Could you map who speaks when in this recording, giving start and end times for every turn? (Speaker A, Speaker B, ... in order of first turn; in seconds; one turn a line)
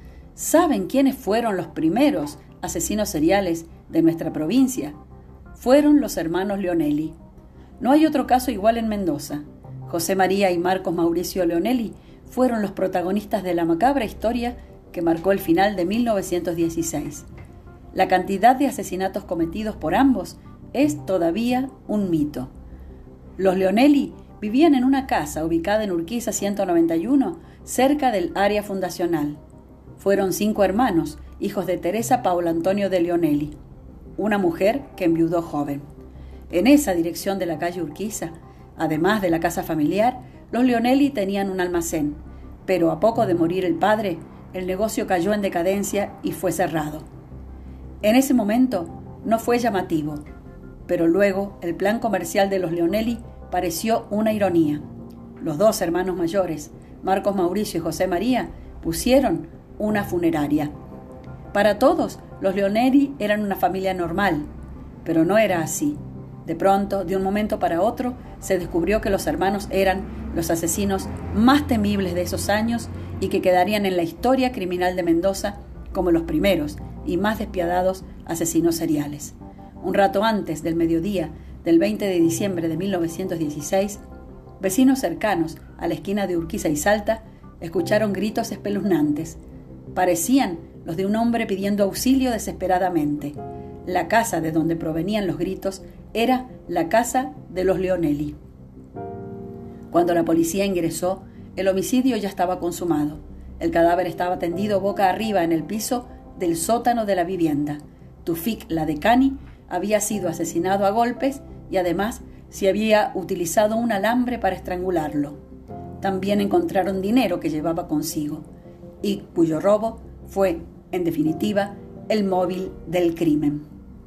Speaker A: 0.3-5.0
Speaker A: 5.5-7.2
Speaker A: 7.8-17.3
Speaker A: 17.9-22.5
Speaker A: 23.4-29.4
Speaker A: 30.0-33.5
Speaker A: 34.2-35.8
Speaker A: 36.5-47.1
Speaker A: 48.0-50.2
Speaker A: 50.9-54.8
Speaker A: 55.4-60.7
Speaker A: 61.5-64.5
Speaker A: 65.0-84.0
Speaker A: 84.6-89.4
Speaker A: 89.9-98.4
Speaker A: 99.9-115.4
Speaker A: 116.0-118.4
Speaker A: 119.0-123.7